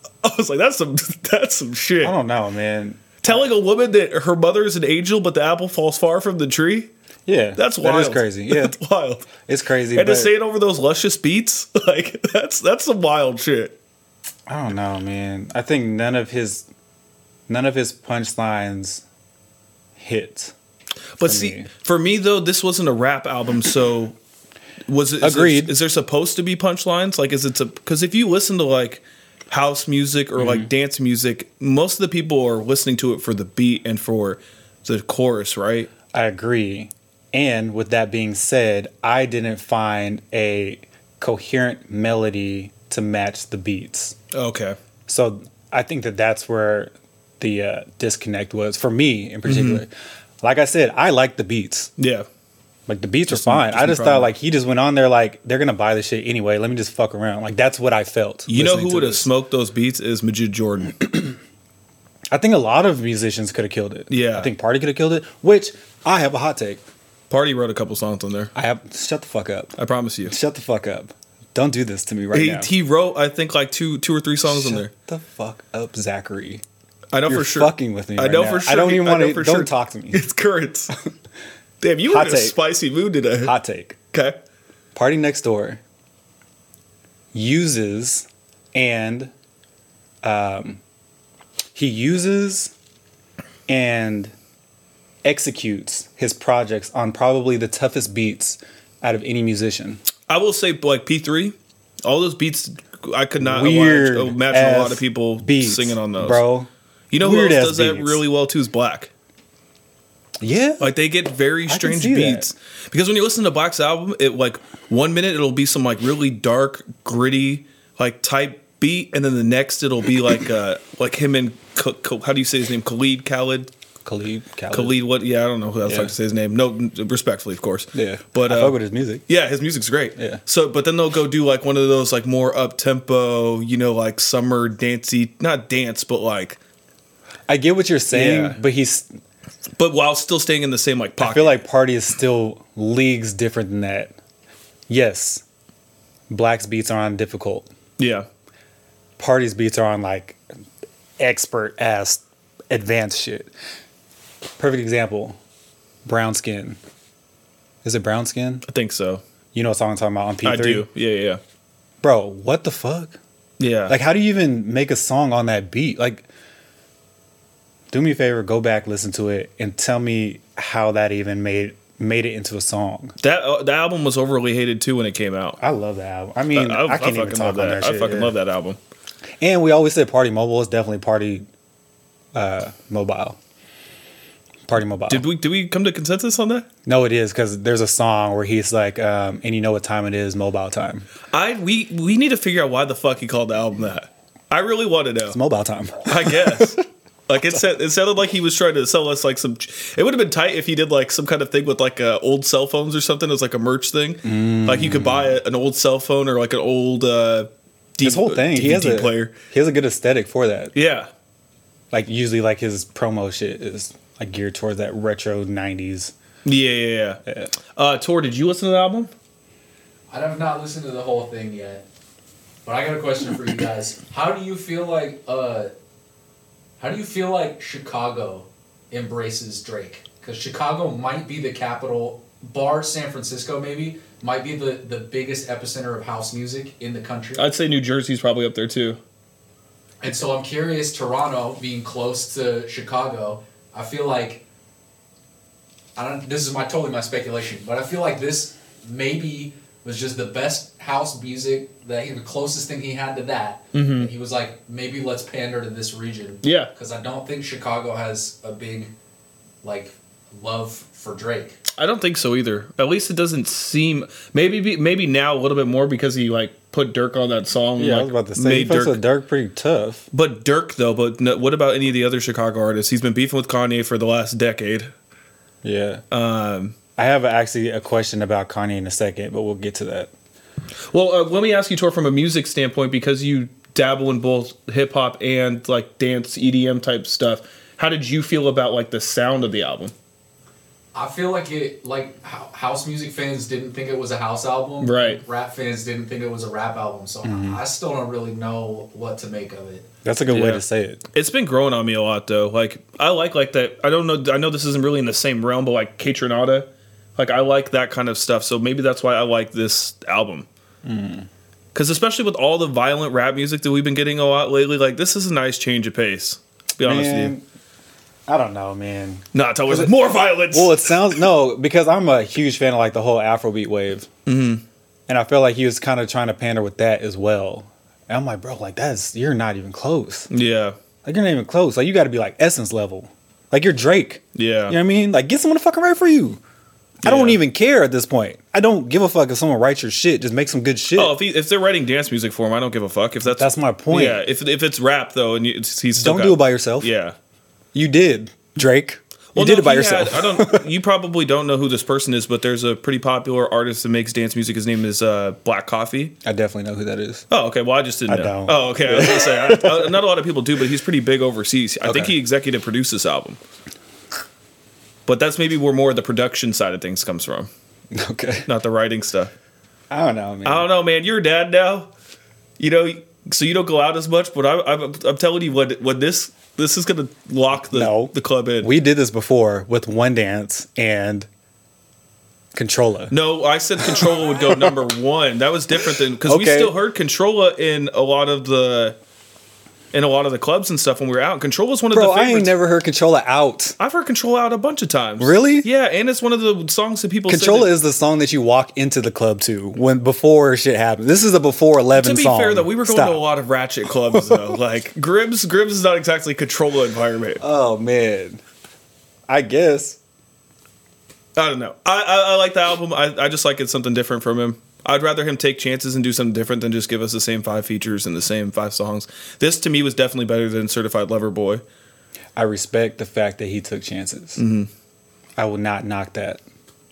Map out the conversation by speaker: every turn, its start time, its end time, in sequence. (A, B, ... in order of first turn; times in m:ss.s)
0:00.2-0:02.2 A
0:02.0-0:03.4 B
0:03.2-0:06.9 A
0:07.3-0:08.8 B
0:07.6-0:09.3 A
0:09.4-0:10.3 B
0:09.9-0:13.8 A
0:14.5-0:16.7 B
0:17.5-0:19.0 B
0:20.0-0:20.5 B
0:21.2-0:24.2 A
0:21.2-0:21.7 B
0:24.9-0:35.9 A
0:25.2-0:25.8 B
0:30.4-0:30.7 B
0:36.1-0:44.2 B
0:44.3-0:44.8 A
0:45.1-0:49.9 B
0:49.4-0:49.8 A
0:50.4-0:51.9 B
0:52.0-0:52.3 A
0:52.9-0:59.3 B
0:53.3-0:54.3 A
0:58.5-1:01.1 A
1:02.3-1:06.8 B
1:04.1-1:04.5 A
1:07.3-1:08.5 A
1:08.6-1:09.7 B
1:09.8-1:10.3 A
1:10.3-1:12.7 B
1:12.3-1:14.9 A
1:14.5-1:16.6 B
1:17.1-1:20.9 A
1:17.3-1:20.2 B
1:21.8-1:23.5 A
1:22.1-1:22.6 B
1:23.4-1:24.0 B
1:24.1-1:24.4 A
1:25.0-1:25.8 B
1:27.3-1:29.3 B
1:30.2-1:30.8 B
1:31.8-1:32.7 B
1:33.7-1:34.3 B
1:35.2-1:40.0 B
1:40.3-1:46.4 A
1:43.4-1:48.2 B
1:47.1-1:49.1 A
1:50.4-1:50.9 B
1:50.8-2:03.7 A
1:51.7-1:52.5 B
2:04.0-2:05.0 B
2:04.7-2:16.6 A
2:05.9-2:06.1 B
2:07.9-2:09.2 B
2:10.2-2:10.4 B
2:17.5-2:19.1 B
2:18.1-2:18.6 A
2:19.8-2:21.6 A
2:21.2-2:24.2 B
2:24.9-2:25.4 B
2:26.3-2:27.7 B
2:28.0-2:28.3 A
2:29.2-2:30.4 B
2:31.2-2:33.5 B
2:34.6-2:35.4 B
2:36.0-2:36.8 B
2:37.8-2:38.6 B
2:38.7-2:39.2 A
2:39.5-2:40.9 B
2:40.4-2:41.4 A
2:42.0-2:43.2 B
2:43.6-2:44.0 A
2:43.9-2:46.3 B
2:47.9-2:53.1 B
2:53.2-2:55.6 A
2:55.6-2:58.4 B
2:56.5-2:58.8 A
2:59.4-3:01.5 B
3:02.3-3:03.4 B
3:04.7-3:05.3 B
3:05.1-3:06.7 A
3:06.9-3:11.1 B
3:11.3-3:15.4 A
3:15.3-3:16.8 B
3:16.1-3:29.4 A
3:24.2-3:25.4 B
3:28.0-3:30.7 B
3:30.8-3:31.1 A
3:31.9-3:36.1 B
3:36.4-3:37.2 A
3:37.2-3:37.5 B
3:37.8-3:39.1 A
3:40.1-3:41.8 C
3:42.6-3:45.7 C
3:46.8-3:57.4 C
3:57.4-3:59.0 A
4:00.0-4:04.4 C
4:06.0-4:18.9 C
4:13.7-4:14.1 A
4:16.4-4:16.7 A
4:19.6-4:21.6 C
4:21.8-4:29.0 A
4:27.8-4:30.1 B
4:30.1-4:34.9 A
4:35.6-4:36.0 B
4:36.1-4:36.8 A
4:37.0-4:40.1 B
4:40.9-4:49.9 A
4:50.9-4:59.9 C
4:54.8-4:55.2 A
4:57.2-4:57.6 B
5:00.0-5:01.0 B
5:00.3-5:00.6 A
5:01.1-5:10.5 A
5:10.8-5:11.3 B
5:11.7-5:17.3 A
5:16.8-5:17.4 B
5:18.3-5:20.0 B
5:19.3-5:21.2 A
5:20.5-5:24.1 B
5:24.3-5:24.6 A
5:25.1-5:30.3 B
5:30.3-5:30.8 A
5:31.0-5:36.4 B
5:34.4-5:34.8 A
5:37.0-5:41.2 B
5:37.0-5:37.4 A
5:41.0-5:47.2 A
5:43.3-5:44.2 B
5:46.0-5:46.9 B
5:47.7-5:50.7 B
5:49.4-5:56.2 A
5:56.2-5:57.2 B
5:57.3-6:03.4 A
5:58.1-5:59.9 B
6:01.8-6:02.1 B
6:05.1-6:07.5 A
6:07.9-6:08.5 B
6:08.5-6:09.3 A
6:09.9-6:10.7 B
6:10.4-6:11.9 A
6:12.6-6:18.7 A
6:17.7-6:21.3 B
6:22.6-6:23.2 B
6:23.1-6:29.0 A
6:23.8-6:24.8 B
6:26.2-6:26.8 B
6:29.9-6:32.5 A
6:31.9-6:33.8 B
6:33.8-6:37.7 A
6:35.2-6:35.7 B
6:37.3-6:43.2 B
6:42.0-6:47.4 A
6:44.3-6:44.5 B
6:47.4-6:48.4 B
6:49.3-6:50.0 B
6:51.4-7:01.6 A
7:02.4-7:04.4 B
7:04.4-7:04.7 A
7:05.4-7:06.4 B